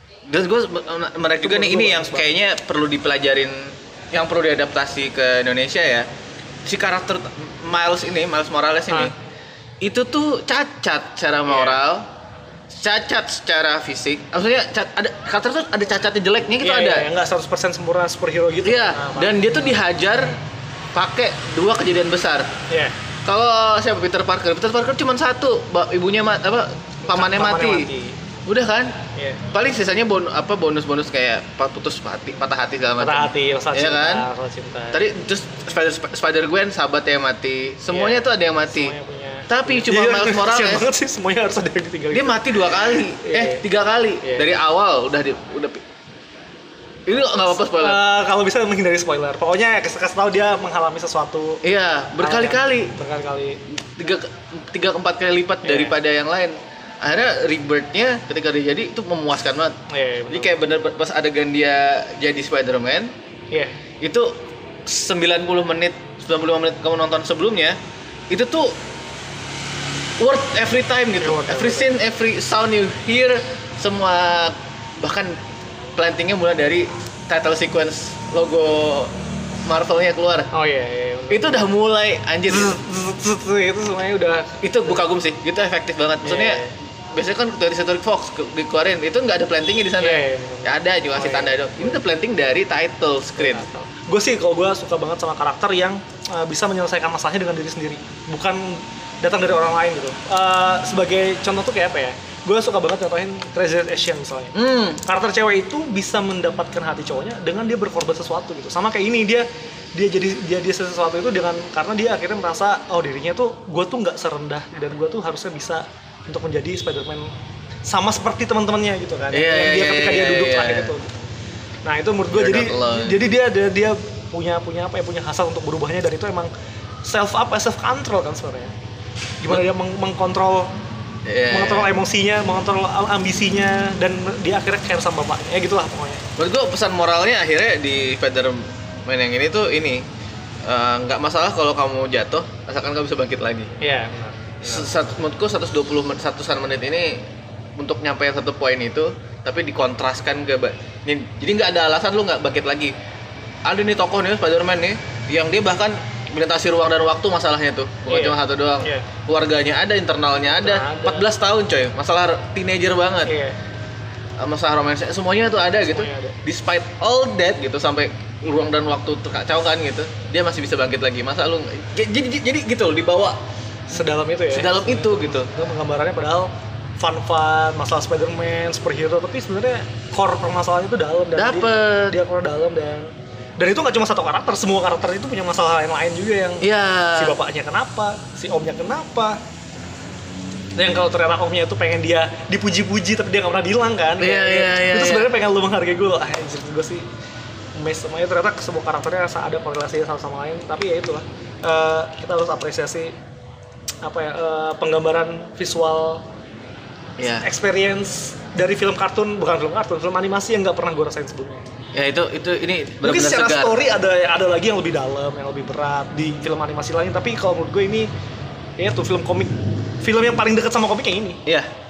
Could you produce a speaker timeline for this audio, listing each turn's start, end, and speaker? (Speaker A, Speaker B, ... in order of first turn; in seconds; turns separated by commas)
Speaker A: 0.3-6.1, Speaker B: 1.4-2.3, Speaker A: 6.6-9.1, Speaker A: 9.8-12.1, Speaker B: 11.5-11.8, Speaker A: 12.7-17.1, Speaker B: 16.6-19.7, Speaker A: 18.6-20.4, Speaker A: 20.9-22.5, Speaker B: 22.7-22.9, Speaker A: 23.2-27.9, Speaker B: 27.0-28.2, Speaker A: 28.5-34.3, Speaker B: 29.1-29.4, Speaker B: 33.0-35.0, Speaker A: 34.9-38.9, Speaker B: 37.9-43.6, Speaker A: 39.5-40.9, Speaker A: 42.1-45.8, Speaker B: 44.2-44.5, Speaker A: 47.1-48.0, Speaker B: 47.5-51.6, Speaker A: 51.6-52.9, Speaker B: 52.2-53.6, Speaker A: 53.9-59.8, Speaker B: 55.6-56.0, Speaker B: 59.9-60.6, Speaker A: 60.3-63.1, Speaker B: 63.5-63.8, Speaker A: 64.0-67.8, Speaker A: 68.3-68.8, Speaker A: 70.2-75.4, Speaker B: 71.2-71.9, Speaker A: 76.0-79.1, Speaker A: 79.7-80.5, Speaker B: 80.5-81.7, Speaker A: 81.3-82.8, Speaker B: 82.5-85.0, Speaker A: 84.6-93.7, Speaker B: 86.2-86.7, Speaker B: 90.0-92.0, Speaker B: 93.4-117.3, Speaker A: 104.5-105.0, Speaker B: 117.8-121.1, Speaker A: 119.3-120.9, Speaker B: 121.8-126.5, Speaker A: 122.3-123.2, Speaker B: 127.0-128.7, Speaker B: 129.4-130.7, Speaker A: 131.2-131.9, Speaker B: 131.5-136.2, Speaker A: 136.4-140.0, Speaker A: 140.6-143.7, Speaker B: 143.8-144.9, Speaker A: 144.6-147.2, Speaker A: 147.8-152.9, Speaker A: 153.7-163.3, Speaker B: 158.1-159.1, Speaker B: 160.6-161.3, Speaker B: 163.2-163.6, Speaker A: 164.4-173.4, Speaker B: 165.9-166.4, Speaker B: 173.9-189.4, Speaker A: 174.5-175.5, Speaker A: 181.3-182.2, Speaker A: 186.6-187.4, Speaker B: 190.8-197.1, Speaker A: 194.2-195.4, Speaker B: 197.7-203.1, Speaker B: 204.0-206.2, Speaker A: 207.2-207.4, Speaker B: 207.4-211.6, Speaker A: 211.9-213.8, Speaker B: 213.0-218.1, Speaker B: 218.8-221.4